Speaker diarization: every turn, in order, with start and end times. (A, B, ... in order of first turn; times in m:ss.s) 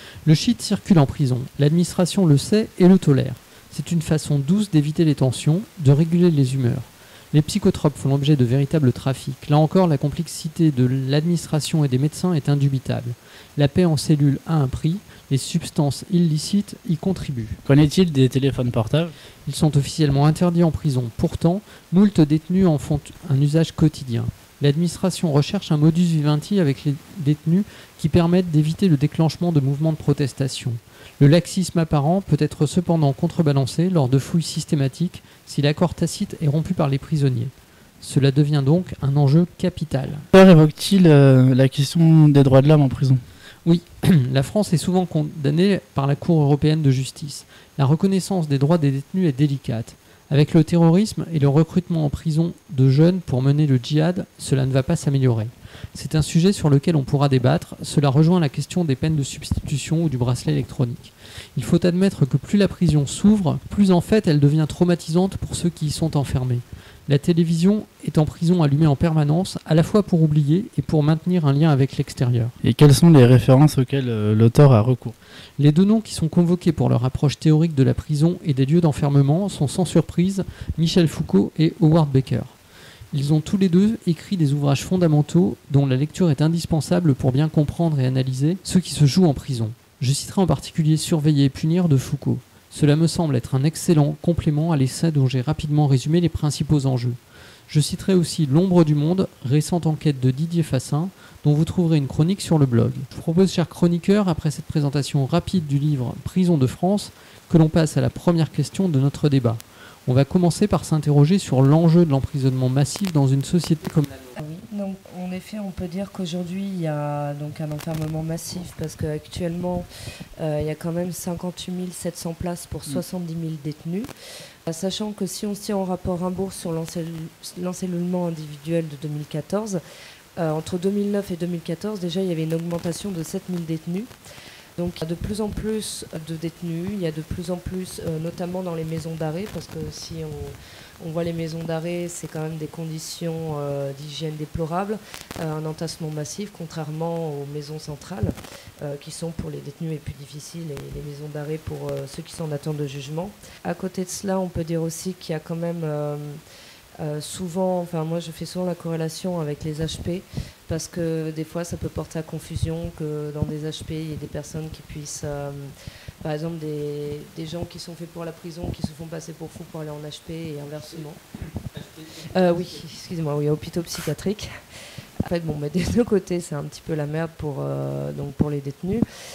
0:00.2-0:17.6 A
0:17.6-0:19.1 B
0:19.4-0:40.3 A
0:40.3-0:43.2 B
0:43.6-1:12.6 A
1:12.6-1:15.2 B
1:15.6-1:22.6 A
1:23.1-1:37.2 A
1:37.7-1:54.4 A
1:54.4-1:59.9 C
2:00.4-2:04.1 C
2:04.7-2:09.8 C
2:10.4-2:14.1 C
2:14.8-2:36.4 C
2:37.0-2:51.2 C
2:51.8-2:52.5 A
2:52.2-2:54.5 C
2:55.2-2:59.0 C